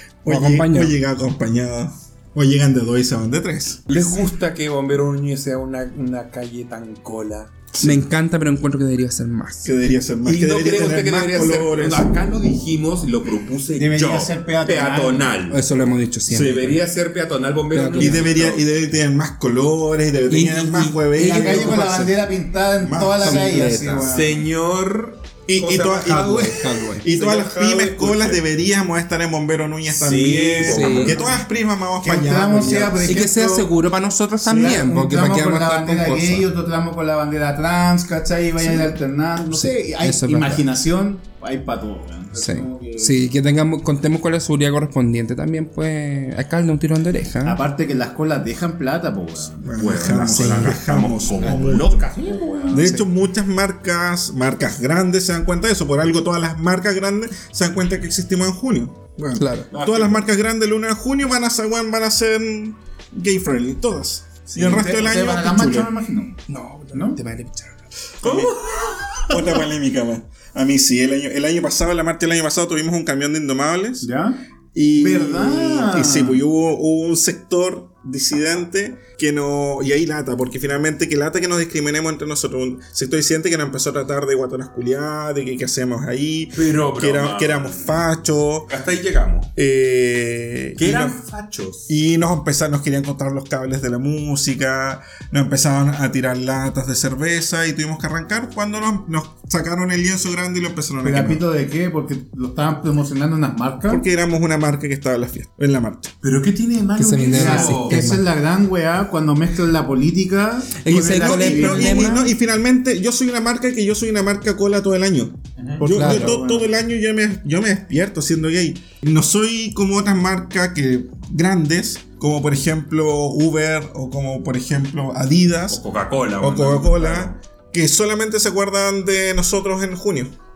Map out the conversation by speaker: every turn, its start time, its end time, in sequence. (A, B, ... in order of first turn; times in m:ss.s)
0:00.2-0:04.1 A
0:00.3-0:00.9 B
0:03.9-0:07.6 C
0:07.7-0:08.0 A
0:07.8-0:09.9 B
0:09.6-0:12.1 A
0:10.2-0:15.6 C
0:13.7-0:15.3 D
0:15.5-0:16.8 B
0:16.3-0:18.6 C
0:17.7-0:18.3 B
0:18.0-0:21.9 A
0:20.3-0:22.1 B
0:21.2-0:24.4 D
0:22.8-0:23.4 A
0:23.2-0:24.1 B
0:24.1-0:28.4 C
0:25.5-0:33.2 A
0:26.4-0:27.0 B
0:29.9-0:31.4 C
0:30.6-0:31.2 B
0:32.0-0:33.7 D
0:33.0-0:36.5 B
0:34.4-0:43.2 D
0:38.6-0:38.9 B
0:39.5-0:40.6 B
0:42.4-0:47.6 B
0:47.4-0:49.7 D
0:49.6-0:52.0 A
0:49.7-0:52.8 C
0:50.3-0:50.8 B
0:51.7-0:52.8 D
0:52.7-0:53.0 B
0:52.7-1:05.9 A
0:59.4-0:59.7 B
0:59.7-1:00.2 C
1:04.5-1:04.8 C
1:04.6-1:06.4 D
1:06.5-1:07.8 B
1:06.9-1:07.2 D
1:08.2-1:08.5 A
1:08.2-1:09.6 C
1:09.3-1:14.1 A
1:14.0-1:14.4 D
1:14.7-1:28.7 A
1:15.0-1:16.4 D
1:26.5-1:28.1 C
1:28.7-1:29.5 C
1:29.6-1:31.2 A
1:30.8-1:31.9 C
1:31.9-1:41.4 A
1:41.0-1:44.0 D
1:43.9-1:46.1 A
1:46.2-1:48.2 C
1:47.0-1:48.2 B
1:47.3-1:52.3 D
1:50.8-1:52.3 B
1:50.9-2:05.8 A
1:55.6-1:55.8 C
1:55.7-1:56.7 D
1:55.9-1:56.4 B
2:05.7-2:07.4 C
2:06.4-2:10.3 A